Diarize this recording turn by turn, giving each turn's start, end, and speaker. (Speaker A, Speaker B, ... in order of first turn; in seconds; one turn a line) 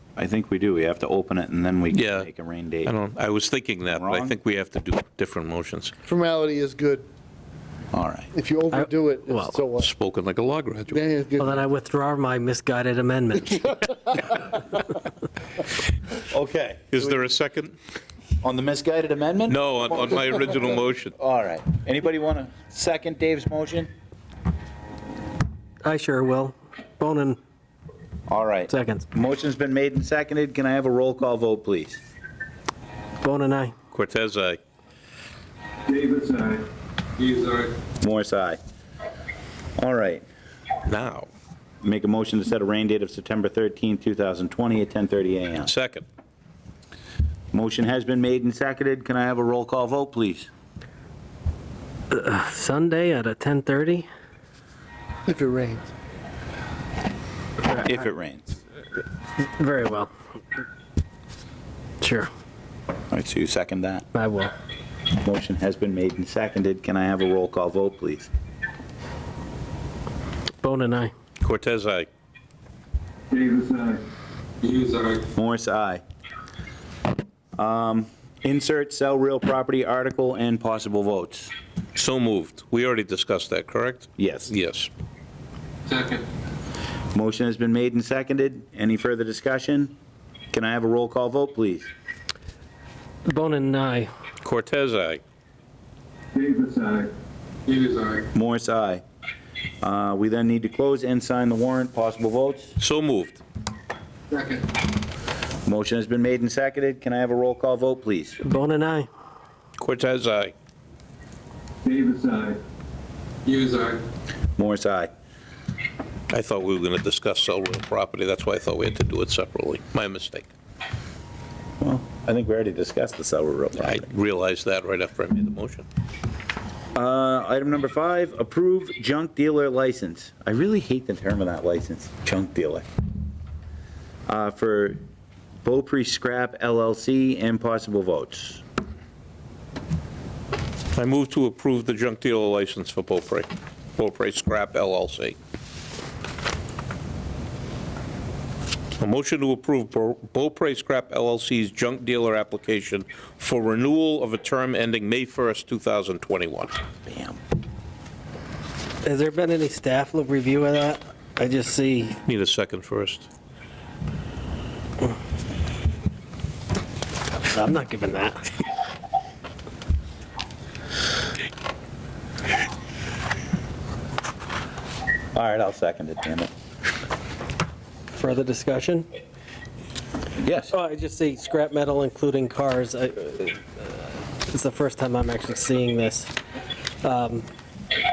Speaker A: 0.2-2.9
Speaker B: 1.9-2.3
Speaker B: 2.8-5.9
Speaker A: 3.9-4.3
Speaker C: 6.0-7.0
Speaker A: 7.9-8.3
Speaker C: 8.3-9.9
Speaker D: 8.7-9.6
Speaker B: 9.8-11.0
Speaker C: 10.9-11.6
Speaker D: 11.4-14.2
Speaker A: 16.2-17.2
Speaker B: 16.9-17.7
Speaker A: 18.4-19.6
Speaker B: 19.5-21.1
Speaker A: 21.2-23.9
Speaker D: 25.8-27.4
Speaker A: 28.3-32.0
Speaker D: 28.7-29.1
Speaker D: 33.2-33.7
Speaker B: 33.9-34.6
Speaker E: 35.9-36.6
Speaker E: 37.2-37.7
Speaker A: 38.0-38.6
Speaker A: 39.8-40.2
Speaker B: 40.9-41.3
Speaker A: 41.8-45.7
Speaker B: 45.6-46.0
Speaker A: 47.5-50.5
Speaker D: 52.1-54.1
Speaker C: 55.3-55.9
Speaker A: 57.7-58.6
Speaker D: 59.6-60.1
Speaker D: 62.0-62.3
Speaker A: 63.1-64.0
Speaker D: 64.1-64.5
Speaker A: 65.2-68.3
Speaker D: 70.6-71.1
Speaker B: 71.4-72.1
Speaker E: 73.3-74.0
Speaker E: 74.6-75.2
Speaker A: 75.4-76.0
Speaker A: 77.5-81.5
Speaker B: 82.0-84.9
Speaker A: 84.2-84.5
Speaker E: 85.9-86.2
Speaker A: 87.1-89.9
Speaker A: 90.5-91.9
Speaker D: 93.3-94.1
Speaker B: 94.4-95.2
Speaker E: 96.3-97.1
Speaker E: 97.7-98.2
Speaker A: 98.3-99.0
Speaker A: 99.8-102.8
Speaker B: 102.8-103.4
Speaker E: 104.3-104.7
Speaker A: 105.7-108.4
Speaker D: 108.4-109.1
Speaker B: 109.8-110.5
Speaker E: 111.8-112.6
Speaker E: 113.5-114.0
Speaker A: 114.6-115.1
Speaker B: 116.3-120.5
Speaker A: 121.8-124.0
Speaker B: 123.8-125.8
Speaker A: 126.9-132.8
Speaker A: 134.3-135.0
Speaker A: 135.6-138.6
Speaker B: 140.9-145.4
Speaker B: 149.0-156.7
Speaker A: 157.1-157.4
Speaker D: 159.0-162.2
Speaker B: 162.2-163.3
Speaker D: 167.5-168.5
Speaker A: 175.3-176.5
Speaker D: 178.2-179.1
Speaker A: 180.4-180.7
Speaker D: 180.7-186.3
Speaker D: 187.0-187.5